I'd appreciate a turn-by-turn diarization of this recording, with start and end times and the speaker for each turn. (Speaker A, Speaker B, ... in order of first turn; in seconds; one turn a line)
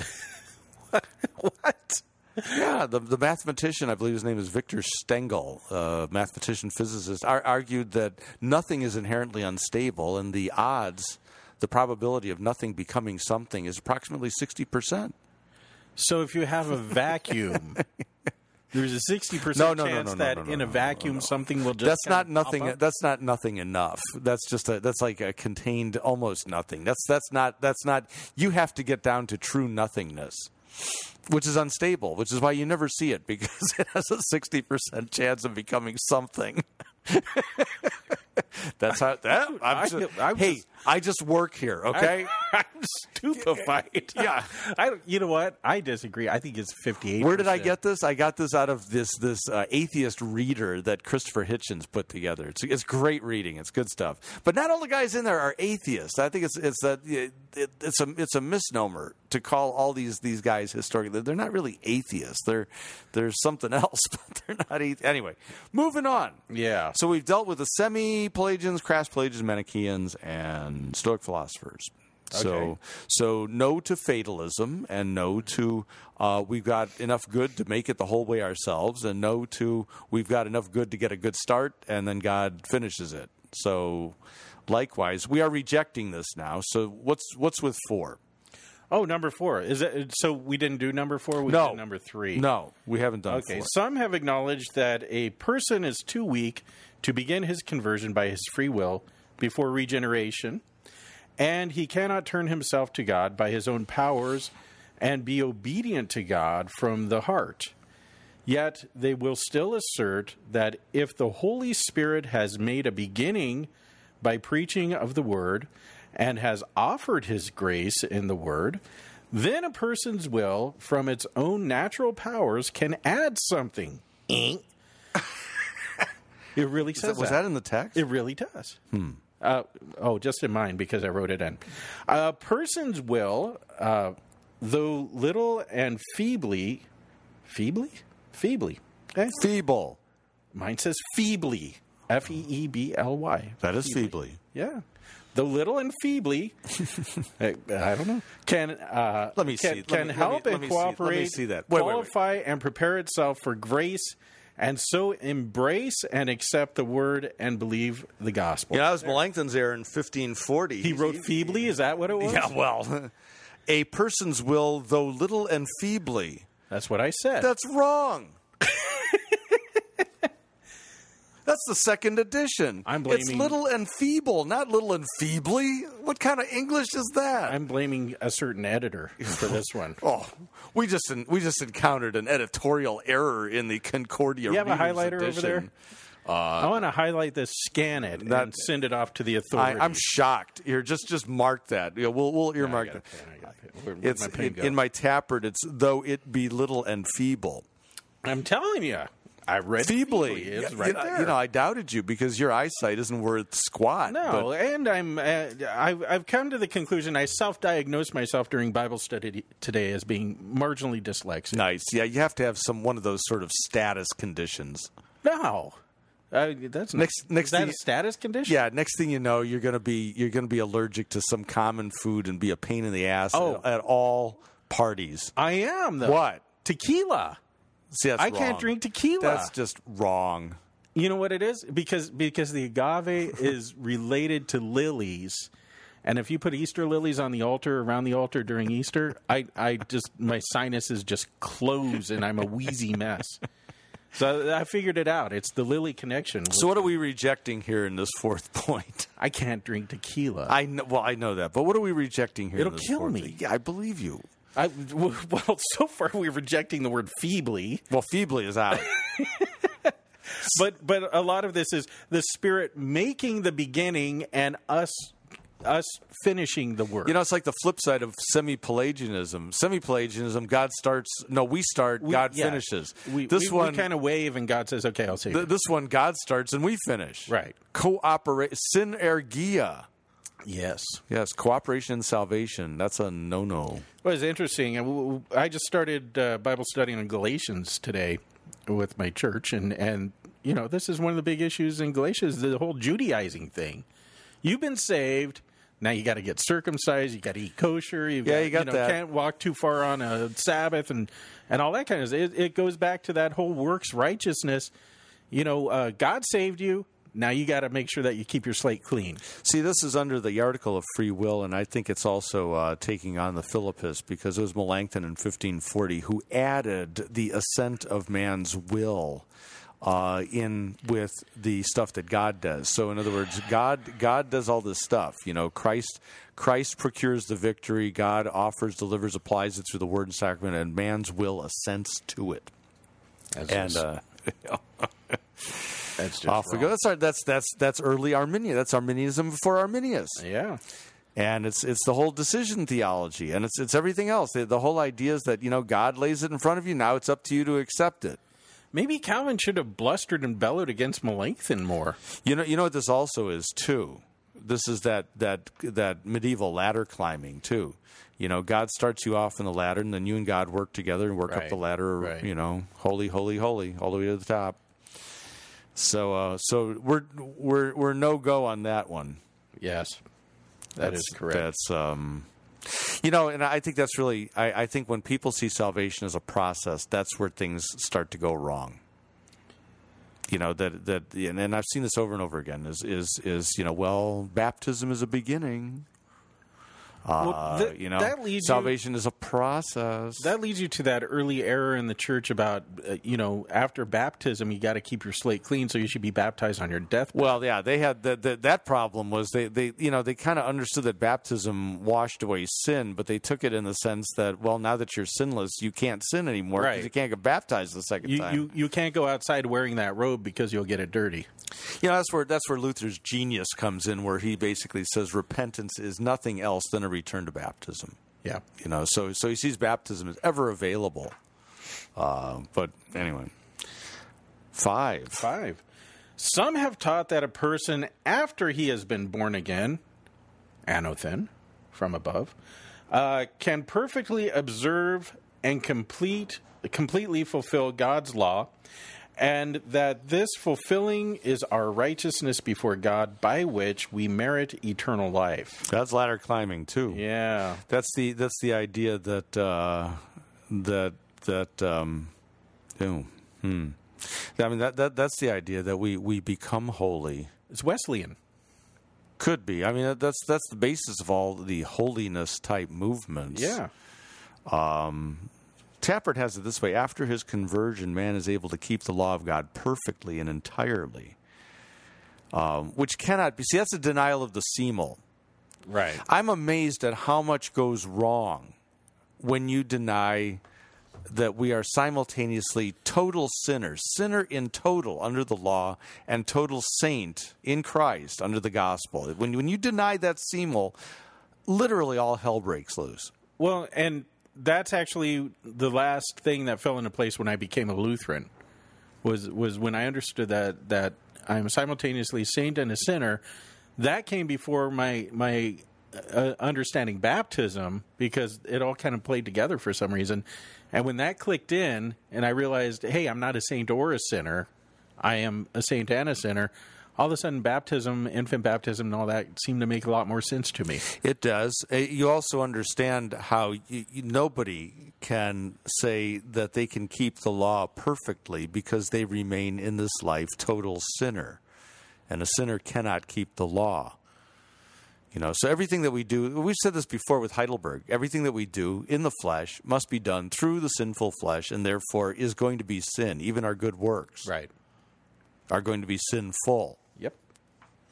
Speaker A: 1.0-2.6
Speaker B: 2.5-15.1
Speaker A: 16.0-17.9
Speaker A: 18.7-22.8
Speaker B: 19.5-42.3
Speaker A: 39.5-40.6
Speaker A: 41.9-47.8
Speaker B: 44.1-44.5
Speaker B: 47.2-66.4
Speaker A: 66.5-67.0
Speaker B: 66.9-88.2
Speaker A: 72.3-72.7
Speaker A: 88.9-92.5
Speaker B: 91.4-93.7
Speaker A: 93.3-100.6
Speaker A: 101.4-107.7
Speaker A: 108.5-113.7
Speaker A: 114.2-124.6
Speaker A: 126.6-128.8
Speaker B: 126.9-128.1
Speaker B: 128.9-129.2
Speaker A: 129.4-136.8
Speaker A: 137.5-139.4
Speaker B: 139.3-140.0
Speaker A: 140.5-146.6
Speaker B: 143.6-144.4
Speaker A: 147.4-159.1
Speaker B: 149.4-152.1
Speaker B: 158.7-163.1
Speaker A: 160.8-162.5
Speaker B: 163.7-166.5
Speaker A: 166.7-167.5
Speaker B: 167.4-168.4
Speaker A: 168.7-169.4
Speaker B: 171.4-177.6
Speaker A: 172.9-173.6
Speaker A: 177.5-180.0
Speaker B: 179.4-185.7
Speaker A: 184.5-185.7
Speaker B: 186.3-186.9
Speaker A: 186.6-190.1
Speaker B: 188.2-188.7
Speaker B: 189.5-193.1
Speaker A: 192.6-194.8
Speaker B: 194.0-197.7
Speaker A: 198.2-201.4
Speaker B: 199.8-204.5
Speaker A: 204.1-211.6
Speaker B: 211.5-214.9
Speaker A: 215.2-215.8
Speaker A: 216.3-218.6
Speaker B: 216.9-217.8
Speaker B: 218.4-225.3
Speaker A: 223.3-223.7
Speaker A: 225.4-227.4
Speaker B: 226.0-226.4
Speaker B: 227.9-230.6
Speaker A: 228.2-229.5
Speaker A: 231.0-235.5
Speaker A: 236.0-243.4
Speaker A: 244.1-246.9
Speaker B: 246.5-249.1
Speaker A: 249.2-250.6
Speaker B: 250.5-254.3
Speaker A: 252.6-253.4
Speaker A: 254.6-257.9
Speaker B: 257.9-259.1
Speaker A: 258.9-267.2
Speaker B: 267.0-273.9
Speaker A: 272.0-275.5
Speaker B: 275.3-279.9
Speaker A: 277.3-277.6
Speaker A: 280.4-281.0
Speaker B: 281.1-283.9
Speaker A: 284.0-293.9
Speaker A: 294.4-304.7
Speaker B: 298.2-299.0
Speaker A: 305.3-309.2
Speaker B: 309.4-319.3
Speaker B: 319.8-332.5
Speaker A: 333.3-333.8
Speaker B: 333.5-340.2
Speaker A: 336.0-336.7
Speaker A: 340.2-340.6
Speaker B: 341.1-348.2
Speaker A: 348.7-352.0
Speaker B: 352.2-364.6
Speaker A: 361.3-362.3
Speaker B: 365.8-369.2
Speaker A: 369.6-370.0
Speaker A: 370.8-371.5
Speaker B: 370.8-378.8
Speaker B: 380.3-385.9
Speaker B: 387.1-390.3
Speaker A: 387.2-388.8
Speaker A: 390.2-397.4
Speaker B: 397.1-408.5
Speaker A: 406.6-406.9
Speaker A: 408.0-411.3
Speaker B: 411.6-418.0
Speaker B: 418.6-421.2
Speaker B: 421.9-423.3
Speaker B: 424.5-425.3
Speaker A: 425.2-425.6
Speaker A: 426.2-429.8
Speaker A: 430.7-432.4
Speaker A: 432.9-438.5
Speaker A: 439.2-445.7
Speaker B: 445.7-447.1
Speaker A: 446.9-447.6
Speaker B: 447.7-452.1
Speaker B: 452.8-457.3
Speaker A: 457.5-458.2
Speaker B: 459.2-463.6
Speaker A: 463.3-463.7
Speaker B: 464.5-471.2
Speaker B: 472.3-475.0
Speaker A: 475.7-476.0
Speaker B: 476.0-478.6
Speaker B: 479.2-480.4
Speaker B: 481.1-490.8
Speaker B: 491.5-493.1
Speaker A: 493.4-498.3
Speaker A: 499.0-503.2
Speaker A: 503.8-514.5
Speaker A: 515.0-520.9
Speaker B: 520.9-531.4
Speaker B: 532.1-534.0
Speaker B: 535.1-544.3
Speaker A: 544.2-544.5
Speaker B: 545.5-546.8